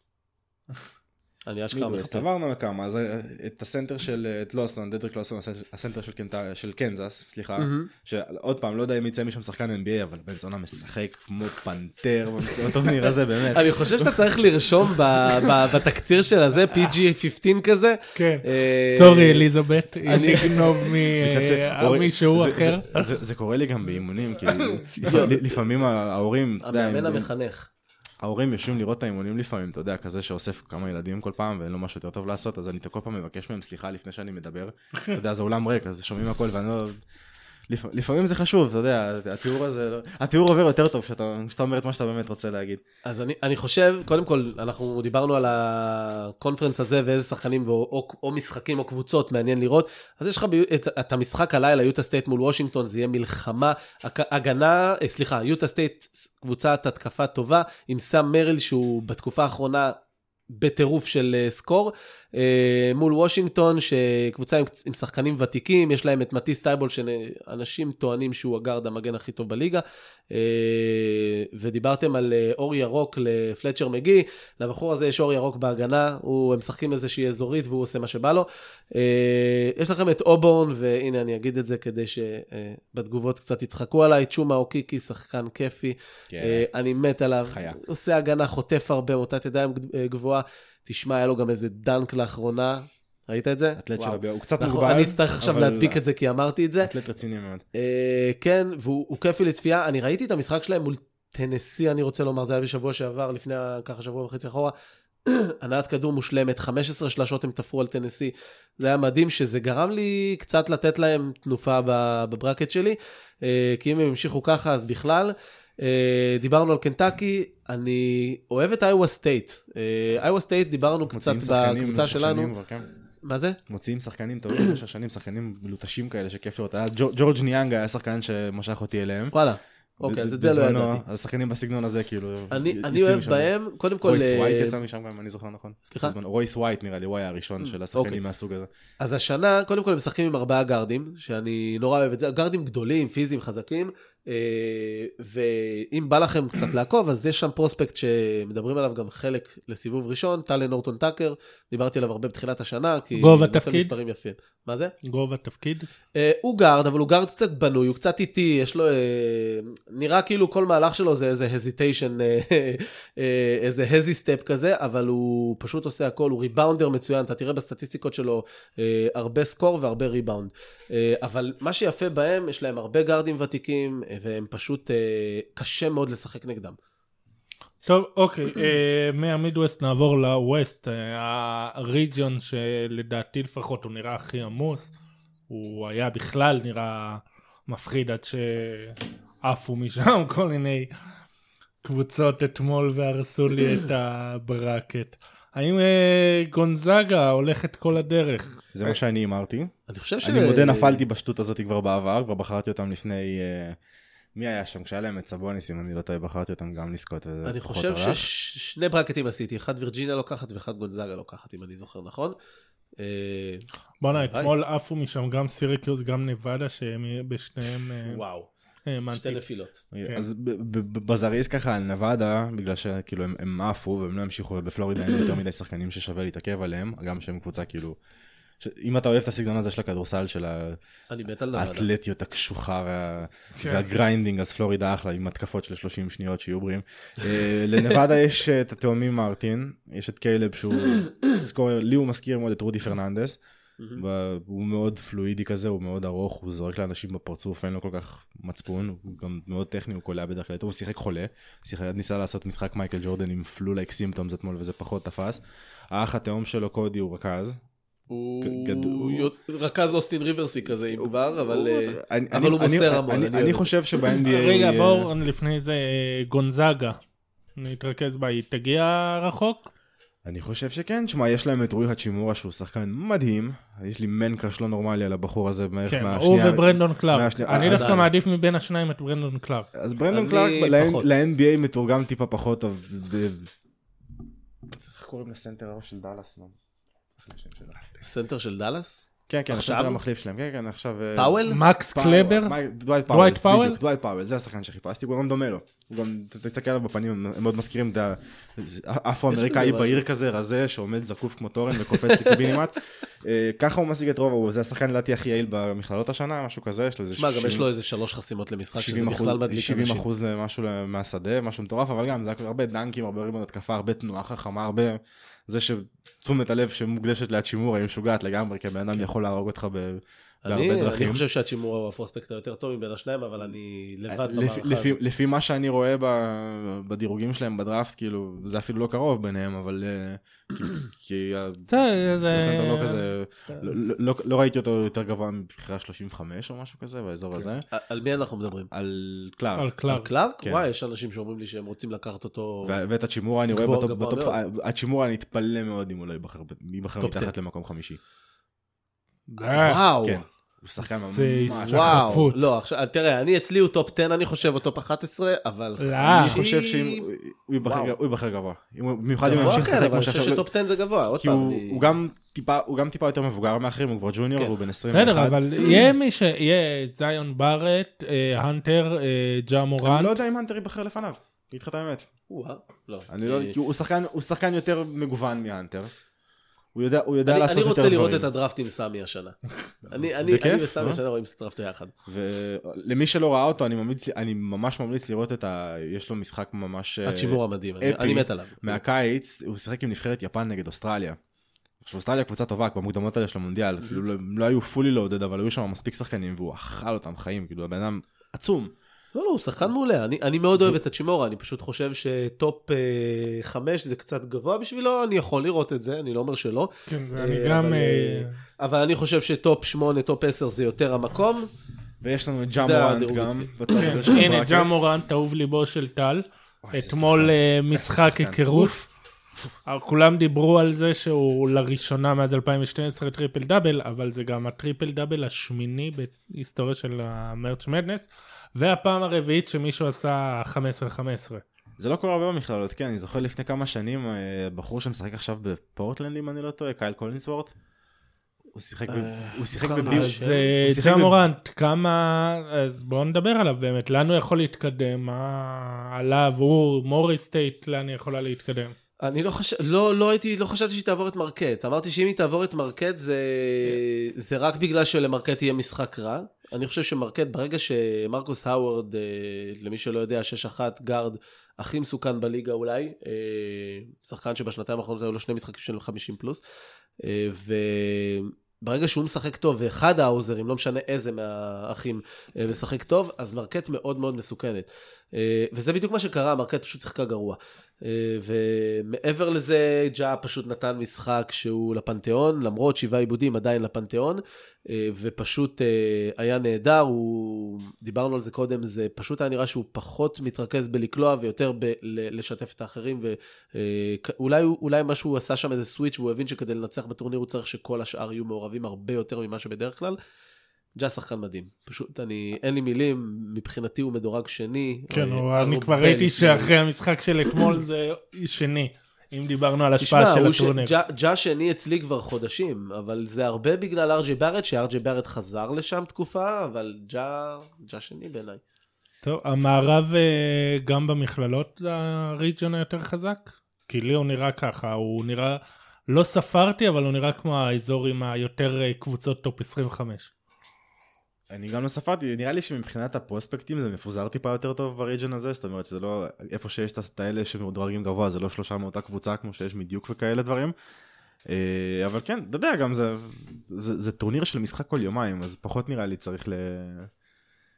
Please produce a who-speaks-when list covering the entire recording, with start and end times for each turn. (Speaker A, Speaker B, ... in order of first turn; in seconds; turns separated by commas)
Speaker A: 1.5-2.3, Speaker B: 1.7-13.8, Speaker A: 7.6-7.9, Speaker A: 13.5-19.5, Speaker C: 18.1-23.1, Speaker A: 20.1-20.8, Speaker B: 20.1-27.3, Speaker C: 24.5-25.1, Speaker A: 25.0-25.4, Speaker A: 26.6-27.7, Speaker B: 28.2-37.0, Speaker B: 37.7-42.8, Speaker A: 43.0-60.0, Speaker A: 60.5-96.9, Speaker B: 86.3-86.7, Speaker B: 87.5-87.8, Speaker B: 93.8-96.0, Speaker B: 96.8-97.6, Speaker A: 97.7-104.7, Speaker A: 105.2-122.5, Speaker B: 121.1-122.8, Speaker A: 123.2-123.6, Speaker B: 123.7-129.3, Speaker A: 129.3-131.0, Speaker B: 130.0-133.5, Speaker A: 132.5-134.8, Speaker B: 134.0-138.7, Speaker A: 135.9-136.2, Speaker A: 137.6-138.2, Speaker A: 139.0-154.9, Speaker C: 153.2-153.9, Speaker C: 155.0-155.9, Speaker A: 156.1-176.8, Speaker C: 177.8-184.9, Speaker C: 185.5-190.9, Speaker C: 191.8-198.9, Speaker B: 198.7-203.8, Speaker A: 199.9-201.0, Speaker B: 204.3-208.2, Speaker A: 207.4-212.3, Speaker A: 213.0-214.5, Speaker C: 214.0-218.2, Speaker A: 218.0-218.5, Speaker C: 218.8-219.4, Speaker A: 219.1-219.8, Speaker B: 219.9-228.0, Speaker B: 228.6-230.8, Speaker A: 231.1-231.9, Speaker B: 231.5-243.4, Speaker C: 233.6-233.9, Speaker B: 243.9-257.6, Speaker A: 258.1-263.7, Speaker B: 258.4-259.3, Speaker B: 260.9-265.1, Speaker C: 264.1-267.0, Speaker C: 267.6-269.7, Speaker B: 270.2-278.1, Speaker C: 275.9-279.7, Speaker A: 277.5-278.1, Speaker B: 279.7-283.5, Speaker A: 280.1-281.1, Speaker B: 284.7-286.6, Speaker B: 287.2-288.0, Speaker A: 288.0-290.0, Speaker B: 289.3-291.4, Speaker A: 291.1-291.6, Speaker C: 291.5-292.6, Speaker B: 291.9-307.7, Speaker C: 293.1-293.8, Speaker A: 299.3-300.0, Speaker A: 301.9-302.5, Speaker A: 307.2-310.0, Speaker B: 308.8-321.2, Speaker A: 320.4-325.0, Speaker B: 324.1-331.7, Speaker C: 331.7-333.1, Speaker B: 332.3-337.6, Speaker A: 337.3-338.7, Speaker B: 338.7-339.7, Speaker C: 339.6-340.1, Speaker A: 339.9-342.8, Speaker B: 342.6-348.0, Speaker A: 343.5-344.4, Speaker A: 347.0-347.3, Speaker C: 349.3-349.8, Speaker A: 349.4-350.2, Speaker B: 350.0-352.3, Speaker C: 350.9-352.4, Speaker A: 351.5-357.1, Speaker C: 355.8-356.4, Speaker B: 356.0-360.5, Speaker A: 357.6-357.9, Speaker A: 359.2-361.8, Speaker C: 359.3-359.7, Speaker B: 361.2-365.4, Speaker C: 364.9-370.1, Speaker B: 369.8-372.1, Speaker A: 372.3-373.6, Speaker B: 373.1-375.9, Speaker B: 376.7-378.3, Speaker A: 377.2-379.4, Speaker B: 379.9-381.0, Speaker A: 379.9-381.9, Speaker B: 382.1-391.2, Speaker A: 387.0-388.8, Speaker B: 391.8-398.7, Speaker A: 399.1-411.5, Speaker C: 406.9-408.4, Speaker B: 412.0-414.7, Speaker A: 412.6-414.0, Speaker C: 413.8-418.8, Speaker B: 416.6-418.9, Speaker C: 419.7-431.4, Speaker B: 431.8-437.5, Speaker B: 438.5-441.2, Speaker A: 438.9-440.5, Speaker C: 439.8-448.7, Speaker A: 449.0-466.4, Speaker A: 467.0-500.0, Speaker A: 500.8-506.5, Speaker C: 504.9-510.7, Speaker A: 509.8-518.4, Speaker C: 519.0-530.1, Speaker B: 531.3-540.5, Speaker B: 541.3-546.9